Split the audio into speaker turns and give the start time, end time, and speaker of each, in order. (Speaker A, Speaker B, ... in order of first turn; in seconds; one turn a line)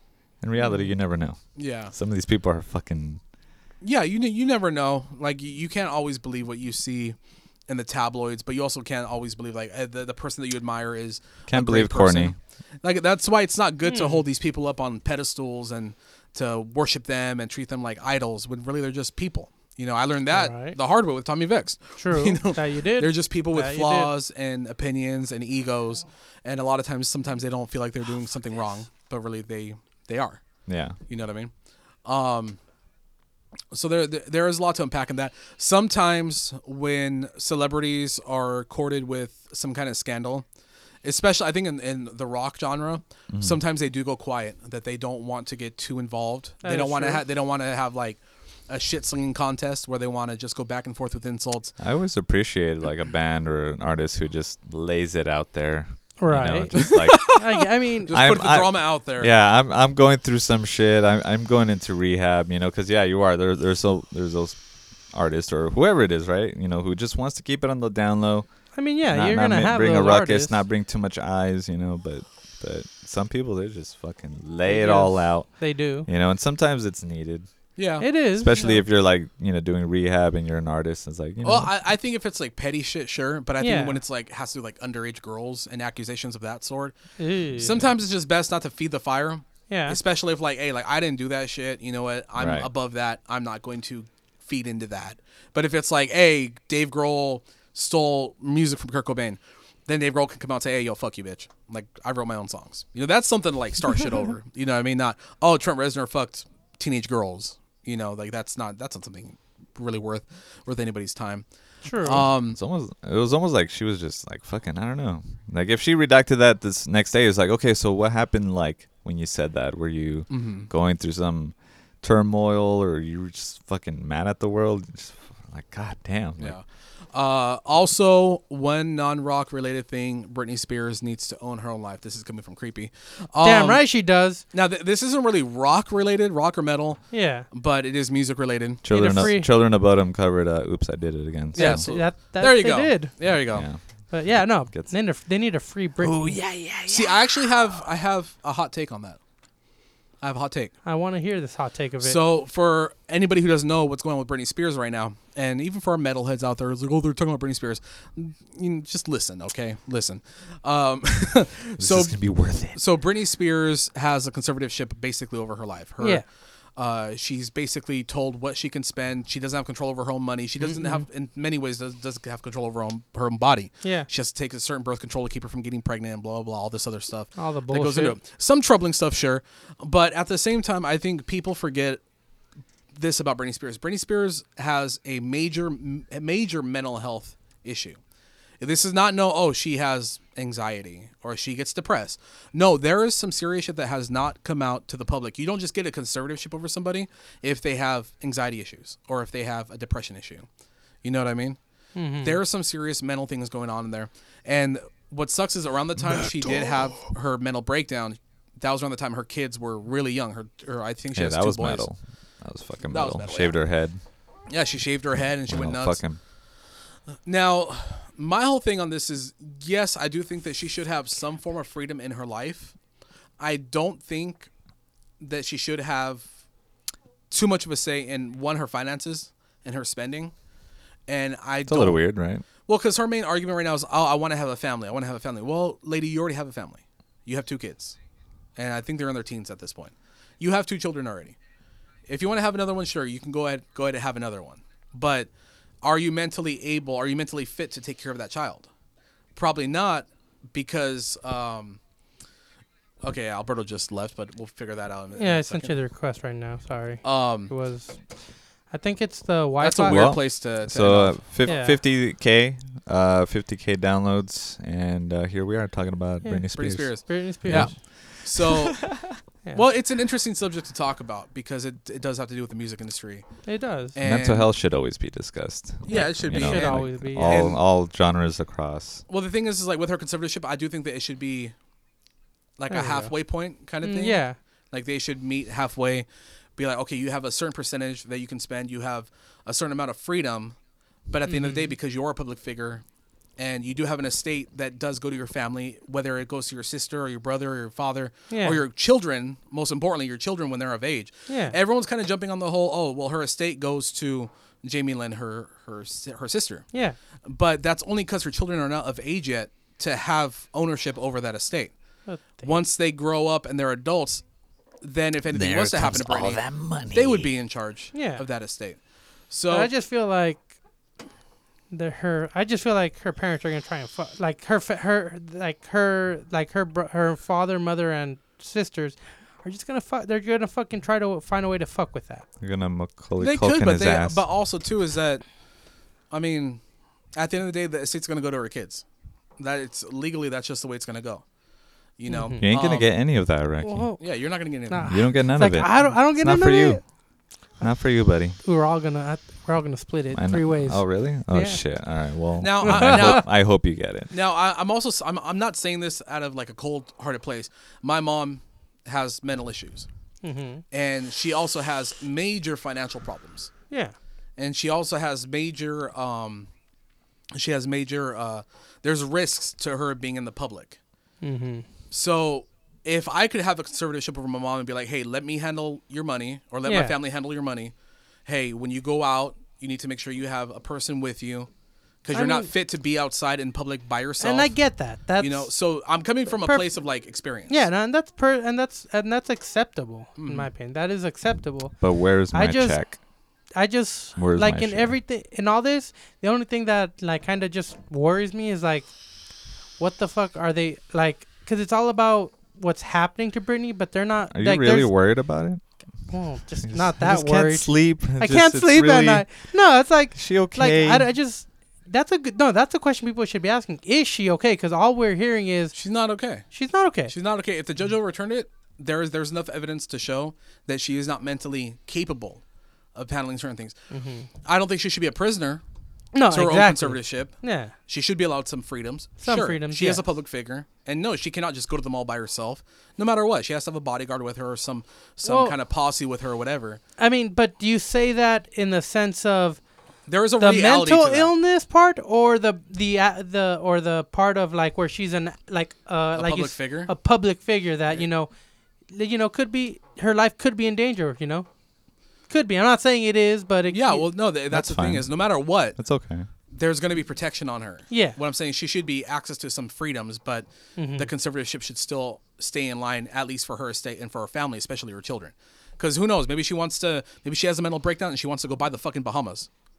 Speaker A: 0.4-3.2
Speaker B: 1.6-1.9
Speaker B: 3.8-7.2
Speaker B: 7.7-30.4
Speaker A: 11.5-12.4
Speaker C: 13.9-14.2
Speaker C: 20.3-20.8
Speaker C: 22.0-24.1
Speaker A: 30.7-31.0
Speaker B: 31.1-31.5
Speaker B: 32.0-32.6
Speaker B: 33.7-40.5
Speaker B: 41.0-51.8
Speaker A: 43.3-43.6
Speaker C: 46.6-47.2
Speaker A: 51.8-57.6
Speaker C: 56.2-58.1
Speaker B: 56.8-57.4
Speaker B: 58.1-59.3
Speaker A: 58.1-68.5
Speaker C: 68.8-70.6
Speaker A: 69.0-77.5
Speaker C: 74.7-76.1
Speaker B: 77.8-78.1
Speaker C: 78.0-78.8
Speaker A: 78.4-81.7
Speaker B: 81.4-87.0
Speaker C: 83.6-84.0
Speaker C: 87.2-87.8
Speaker B: 87.6-112.6
Speaker C: 89.7-90.0
Speaker A: 92.4-92.7
Speaker C: 111.8-112.3
Speaker A: 112.4-126.6
Speaker B: 120.3-120.7
Speaker B: 126.4-133.8
Speaker C: 133.4-134.4
Speaker B: 134.5-139.3
Speaker C: 137.1-137.5
Speaker A: 138.8-141.9
Speaker C: 138.9-139.5
Speaker B: 141.5-143.7
Speaker C: 141.6-143.1
Speaker A: 143.3-144.9
Speaker C: 144.1-146.5
Speaker A: 146.0-147.2
Speaker B: 146.9-149.2
Speaker B: 150.2-150.7
Speaker C: 150.8-152.2
Speaker B: 152.0-166.2
Speaker A: 161.8-162.8
Speaker C: 166.0-166.2
Speaker B: 166.8-182.0
Speaker C: 170.6-171.1
Speaker C: 177.4-178.2
Speaker B: 182.9-188.0
Speaker B: 188.6-200.5
Speaker B: 201.0-201.6
Speaker C: 201.9-202.4
Speaker B: 202.2-211.9
Speaker A: 211.2-214.0
Speaker B: 212.9-213.6
Speaker B: 214.5-216.0
Speaker A: 215.5-216.2
Speaker B: 217.3-222.7
Speaker B: 223.4-224.5
Speaker B: 225.2-226.3
Speaker B: 227.3-230.3
Speaker B: 231.1-232.0
Speaker A: 231.7-232.4
Speaker B: 232.7-238.0
Speaker B: 238.6-241.4
Speaker B: 242.1-245.3
Speaker B: 245.8-248.7
Speaker B: 249.4-251.8
Speaker B: 253.0-255.7
Speaker C: 255.2-258.0
Speaker B: 257.0-257.5
Speaker C: 258.7-260.1
Speaker B: 259.6-261.6
Speaker A: 259.9-269.2
Speaker C: 261.5-261.8
Speaker C: 266.2-267.7
Speaker B: 266.5-273.2
Speaker C: 273.5-273.9
Speaker B: 273.9-274.5
Speaker A: 274.0-279.0
Speaker B: 275.9-277.6
Speaker C: 275.9-277.4
Speaker B: 279.1-281.5
Speaker B: 282.6-286.1
Speaker C: 282.7-283.1
Speaker C: 283.8-284.4
Speaker B: 286.6-290.6
Speaker B: 291.1-292.8
Speaker C: 291.3-291.7
Speaker B: 293.4-306.7
Speaker C: 298.3-298.6
Speaker C: 301.3-301.6
Speaker B: 307.3-311.7
Speaker C: 312.1-312.6
Speaker B: 312.4-314.2
Speaker B: 314.8-318.8
Speaker A: 315.3-317.3
Speaker C: 317.9-318.2
Speaker B: 319.3-319.7
Speaker C: 319.5-320.5
Speaker C: 321.7-332.3
Speaker A: 332.4-334.2
Speaker B: 333.2-335.2
Speaker B: 336.1-336.6
Speaker B: 337.2-338.8
Speaker B: 339.4-341.2
Speaker B: 342.0-342.9
Speaker C: 342.1-342.4
Speaker A: 342.4-343.9
Speaker C: 343.6-344.1
Speaker B: 344.0-345.0
Speaker C: 344.7-346.8
Speaker A: 344.9-346.8
Speaker A: 347.6-348.4
Speaker C: 348.4-351.6
Speaker A: 350.1-354.1
Speaker B: 352.4-353.4
Speaker C: 352.6-353.2
Speaker B: 354.1-359.9
Speaker C: 360.2-360.6
Speaker B: 360.7-363.5
Speaker C: 363.7-363.9
Speaker B: 364.4-366.5
Speaker B: 367.3-370.8
Speaker C: 371.2-371.7
Speaker B: 371.9-377.7
Speaker C: 376.7-377.0
Speaker B: 378.3-381.5
Speaker B: 382.0-384.6
Speaker C: 382.1-382.5
Speaker C: 384.2-385.5
Speaker B: 385.2-387.6
Speaker C: 387.5-391.8
Speaker B: 390.2-390.5
Speaker A: 391.8-393.0
Speaker C: 392.3-392.8
Speaker C: 393.6-398.9
Speaker A: 394.2-395.0
Speaker C: 399.8-404.9
Speaker A: 404.3-405.6
Speaker C: 406.1-415.8
Speaker A: 406.6-409.5
Speaker A: 410.1-411.1
Speaker B: 415.7-416.5
Speaker C: 416.5-417.1
Speaker B: 417.1-422.4
Speaker B: 422.9-423.8
Speaker C: 423.9-424.3
Speaker B: 424.4-425.6
Speaker C: 426.1-427.7
Speaker B: 426.3-427.4
Speaker B: 427.9-436.8
Speaker C: 429.2-430.0
Speaker C: 435.2-435.6
Speaker C: 437.0-439.6
Speaker B: 440.1-441.3
Speaker C: 440.4-448.3
Speaker B: 446.1-446.9
Speaker C: 448.9-451.5
Speaker C: 452.3-454.1
Speaker B: 453.7-455.8
Speaker A: 454.5-455.1
Speaker A: 455.8-456.3
Speaker B: 456.5-469.5
Speaker C: 457.9-458.2
Speaker C: 460.8-461.1